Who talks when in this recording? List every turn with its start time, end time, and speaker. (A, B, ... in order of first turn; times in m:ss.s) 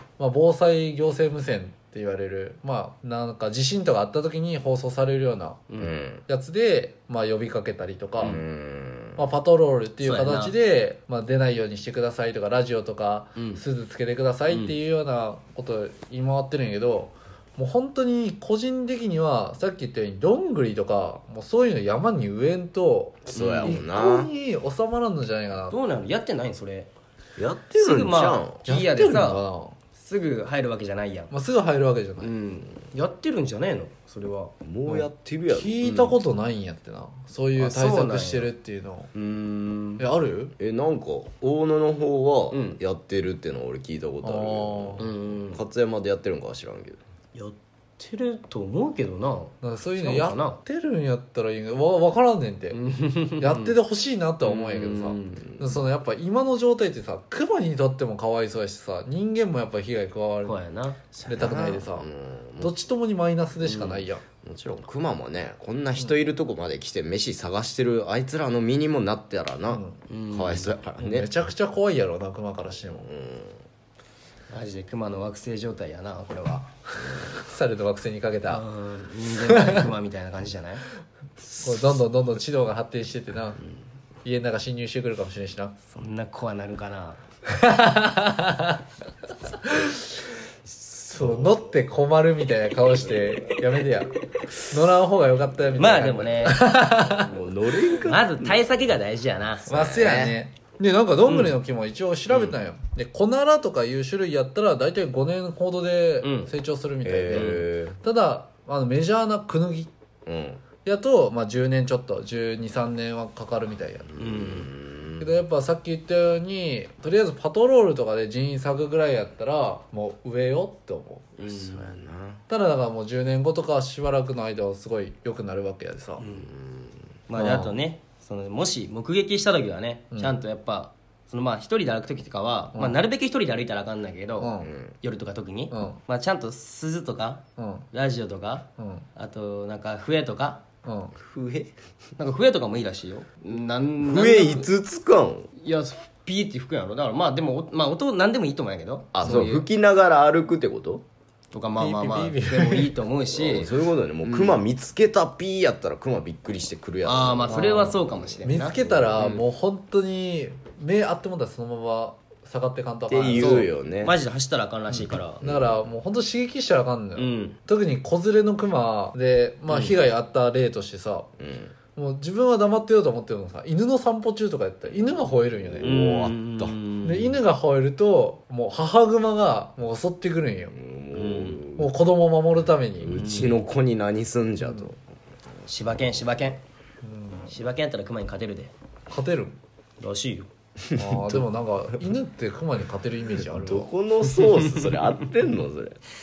0:00.2-0:08.4 A
0:05.8-0:06.2 B
0:08.2-0:09.3 B
0:09.2-0:25.8 A
0:10.0-0:10.6 C
0:13.4-0:13.6 C
0:14.5-0:14.8 C
0:23.3-0:24.3 B
0:23.3-0:23.8 C
0:25.7-0:26.9 C
0:27.4-0:28.6 B
0:27.8-0:31.4 C
0:28.7-0:29.8 A
0:31.3-0:32.3 A
0:32.2-0:34.5 C
0:34.6-0:36.2 B
0:34.9-0:39.1 A
0:37.6-0:38.5 C
0:39.1-0:40.0 B
0:40.0-0:40.5 A
0:40.6-0:47.0 B
0:42.5-0:42.8 C
0:44.2-0:45.1 A
0:45.0-0:45.6 C
0:47.3-0:50.6 C
0:49.6-0:52.8 A
0:52.7-0:53.8 C
0:53.4-1:00.7 A
0:54.4-0:55.6 C
1:00.4-1:01.0 C
1:01.1-1:02.7 B
1:01.3-1:02.1 A
1:02.6-1:04.3 A
1:04.0-1:11.3 B
1:09.7-1:10.0 A
1:10.1-1:10.8 C
1:11.0-1:13.1 A
1:12.9-1:13.6 B
1:14.5-1:16.7 C
1:17.3-1:18.6 A
1:18.5-1:20.8 C
1:19.5-1:19.8 A
1:21.5-1:22.0 B
1:21.6-1:23.6 A
1:24.2-1:25.8 A
1:25.9-1:27.2 C
1:27.5-1:28.8 A
1:29.6-1:30.0 A
1:30.7-1:31.6 B
1:31.1-1:37.3 A
1:35.8-1:36.7 C
1:37.2-1:38.6 B
1:38.0-1:39.7 C
1:39.7-1:40.4 B
1:39.7-1:49.9 A
1:41.3-1:41.6 C
1:46.2-1:46.5 C
1:47.0-1:48.0 B
1:47.3-1:47.6 C
1:50.3-1:50.7 B
1:50.8-1:54.2 A
1:54.1-1:55.4 B
1:54.2-1:54.7 C
1:55.2-2:01.4 A
2:01.4-2:01.9 C
2:01.4-2:02.4 B
2:02.5-2:06.3 A
2:06.2-2:06.5 C
2:06.4-2:06.9 B
2:07.3-2:17.4 C
2:07.3-2:07.8 A
2:10.1-2:10.4 A
2:12.7-2:13.0 A
2:14.4-2:14.7 A
2:14.6-2:14.9 B
2:15.7-2:16.0 A
2:17.6-2:17.9 A
2:17.9-2:20.6 C
2:18.8-2:19.1 A
2:20.8-2:21.2 A
2:21.2-2:21.7 B
2:22.2-2:24.7 C
2:24.0-2:25.5 B
2:25.6-2:29.7 C
2:29.1-2:31.0 B
2:31.5-2:34.6 C
2:31.8-2:32.9 A
2:33.3-2:39.4 B
2:37.0-2:39.4 C
2:37.5-2:43.7 A
2:43.1-2:44.2 B
2:43.3-2:45.4 C
2:44.9-2:51.3 A
2:45.4-2:45.8 B
2:47.2-2:47.6 C
2:49.7-2:50.0 C
2:51.4-2:51.8 B
2:52.0-2:56.1 A
2:55.7-2:56.8 B
2:55.8-2:57.4 C
2:57.0-3:00.8 A
3:00.7-3:01.9 B
3:01.1-3:01.6 C
3:01.7-3:03.3 A
3:03.0-3:05.0 B
3:03.1-3:03.5 C
3:04.6-3:04.9 A
3:05.6-3:06.6 C
3:07.0-3:07.5 A
3:07.5-3:08.7 C
3:09.1-3:09.6 A
3:10.0-3:10.5 C
3:11.0-3:13.9 A
3:11.0-3:11.4 B
3:13.4-3:16.0 B
3:14.4-3:14.7 C